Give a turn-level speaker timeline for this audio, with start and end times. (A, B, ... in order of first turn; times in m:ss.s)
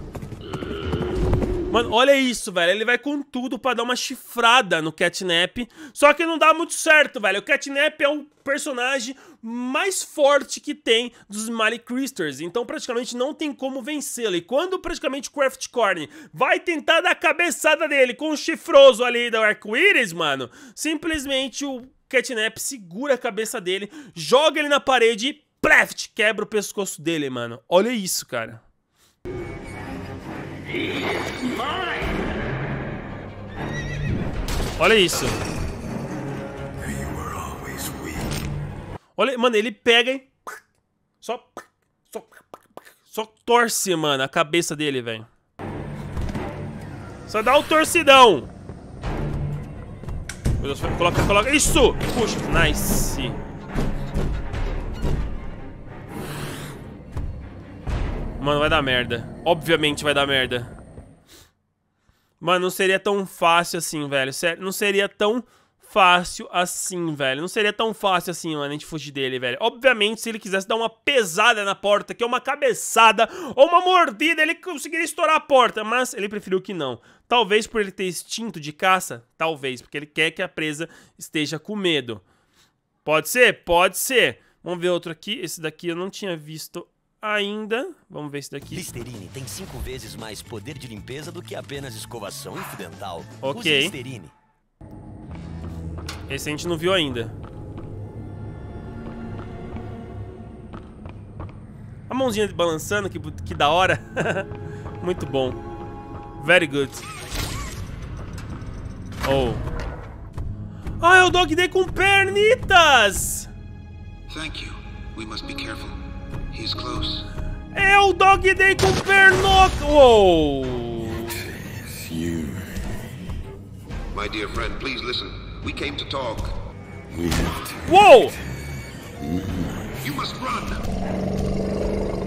0:01.7-0:28.6 A
0:34.8-0:35.4 A
0:39.2-0:40.3 A
0:41.2-0:42.4 A
0:43.0-0:45.3 A
0:47.3-0:48.5 A
0:50.6-0:53.4 A
0:58.4-1:00.7 A
1:02.4-1:22.2 A
1:23.0-1:28.9 A
1:28.7-1:34.3 B
1:33.4-1:33.9 A
1:36.3-1:37.3 A
1:42.1-1:44.5 A
1:45.0-1:45.6 A
1:46.4-1:47.0 A
1:49.2-1:49.6 A
1:51.0-1:53.5 A
1:54.3-1:56.0 C
1:56.5-1:57.2 C
1:57.7-2:01.4 A
2:04.1-2:06.5 C
2:07.8-2:08.4 A
2:10.0-2:10.8 C